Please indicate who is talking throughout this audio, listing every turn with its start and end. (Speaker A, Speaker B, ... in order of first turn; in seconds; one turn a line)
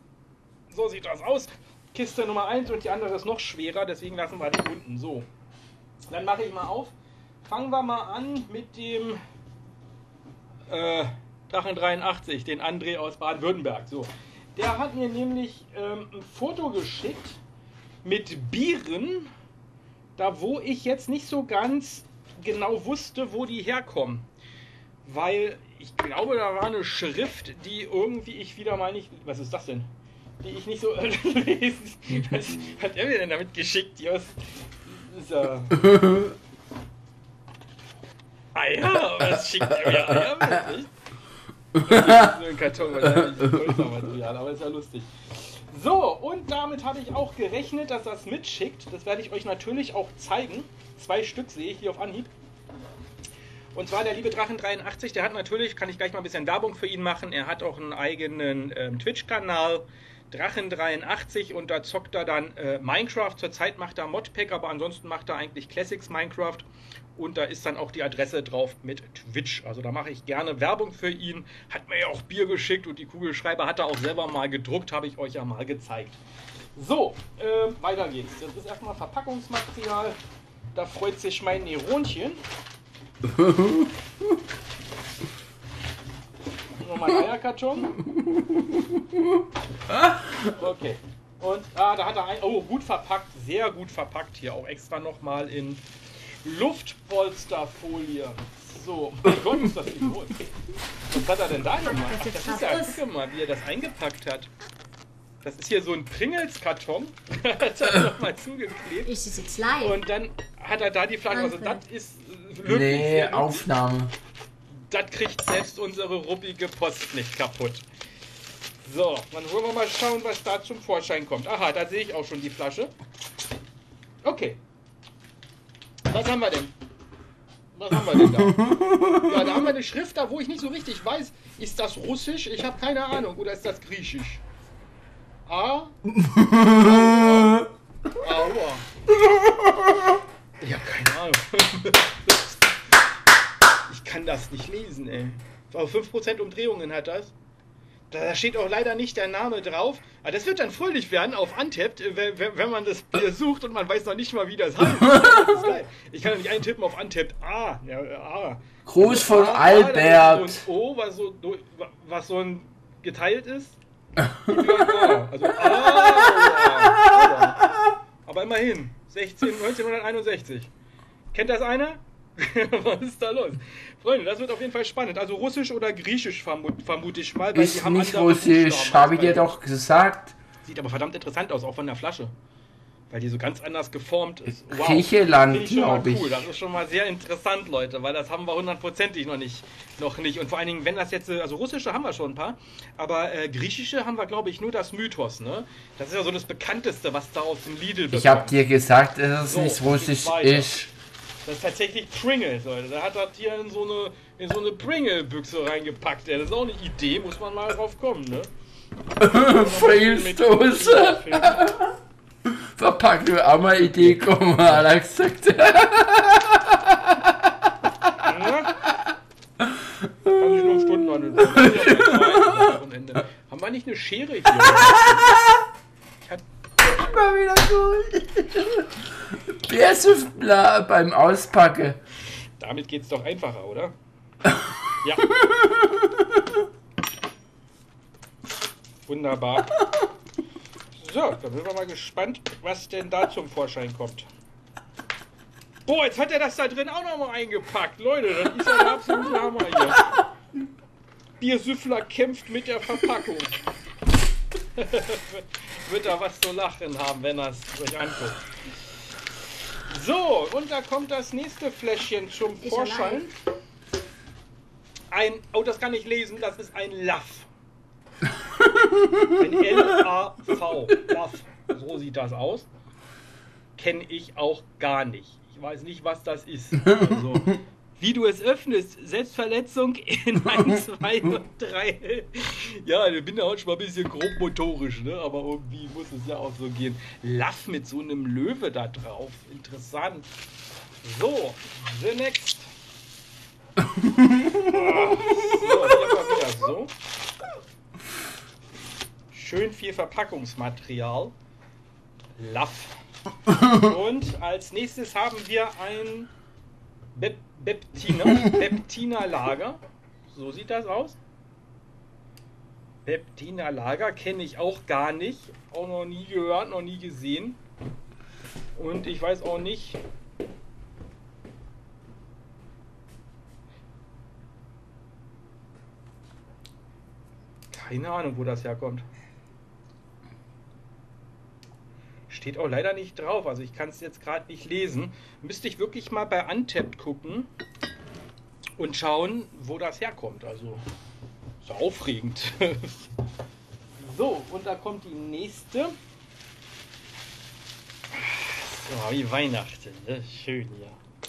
Speaker A: 0.7-5.2
Speaker A: 6.1-6.9
Speaker A: 7.4-9.2
Speaker A: 10.7-17.4
Speaker A: 18.0-19.3
Speaker A: 20.1-24.3
Speaker A: 25.0-29.9
Speaker A: 30.4-36.0
Speaker A: 38.5-40.9
Speaker A: 41.8-52.3
Speaker A: 53.7-76.2
Speaker A: 76.8-80.2
Speaker A: 80.7-82.4
Speaker A: 86.8-88.0
Speaker A: 90.4-95.8
Speaker A: 96.4-100.4
Speaker A: 101.1-104.5
Speaker B: 101.8-103.0
Speaker A: 105.4-109.2
Speaker B: 109.0-110.0
Speaker A: 109.8-113.6
Speaker B: 111.3-111.8
Speaker C: 112.6-114.1
Speaker A: 114.9-117.8
Speaker A: 118.8-122.9
Speaker A: 124.2-124.6
Speaker A: 126.1-126.7
Speaker A: 127.7-134.4
Speaker A: 135.4-136.0
Speaker A: 136.6-137.6
Speaker A: 138.2-138.9
Speaker A: 140.6-142.5
Speaker A: 143.9-147.3
Speaker A: 148.1-163.8
Speaker C: 158.8-160.6
Speaker A: 164.4-167.6
Speaker A: 168.2-170.7
Speaker A: 171.3-179.5
Speaker C: 177.5-180.3
Speaker A: 180.6-182.3
Speaker A: 183.1-198.6
Speaker C: 184.6-186.4
Speaker C: 198.1-200.9
Speaker A: 199.4-200.7
Speaker A: 201.4-208.5
Speaker C: 209.2-211.9
Speaker A: 209.4-211.8
Speaker C: 212.5-217.1
Speaker A: 213.7-214.9
Speaker A: 218.2-218.8
Speaker A: 220.2-225.3
Speaker C: 221.4-222.6
Speaker C: 226.8-228.8
Speaker C: 229.5-232.0
Speaker A: 232.6-233.9
Speaker A: 239.1-239.7
Speaker A: 240.9-244.3
Speaker A: 245.8-250.1
Speaker A: 251.4-253.6
Speaker A: 254.8-258.4
Speaker A: 259.9-263.3
Speaker B: 262.6-263.2
Speaker A: 265.1-267.5
Speaker A: 269.3-272.7
Speaker A: 273.8-290.3
Speaker A: 291.0-292.7
Speaker A: 294.5-296.9
Speaker A: 299.3-301.3
Speaker A: 302.4-302.9
Speaker A: 303.5-306.3
Speaker A: 307.1-309.8
Speaker A: 310.3-311.2
Speaker A: 313.0-317.6
Speaker A: 318.7-320.0
Speaker A: 327.7-329.0
Speaker A: 332.3-337.5
Speaker A: 338.8-340.8
Speaker A: 341.6-343.1
Speaker A: 344.0-345.9
Speaker A: 348.1-351.0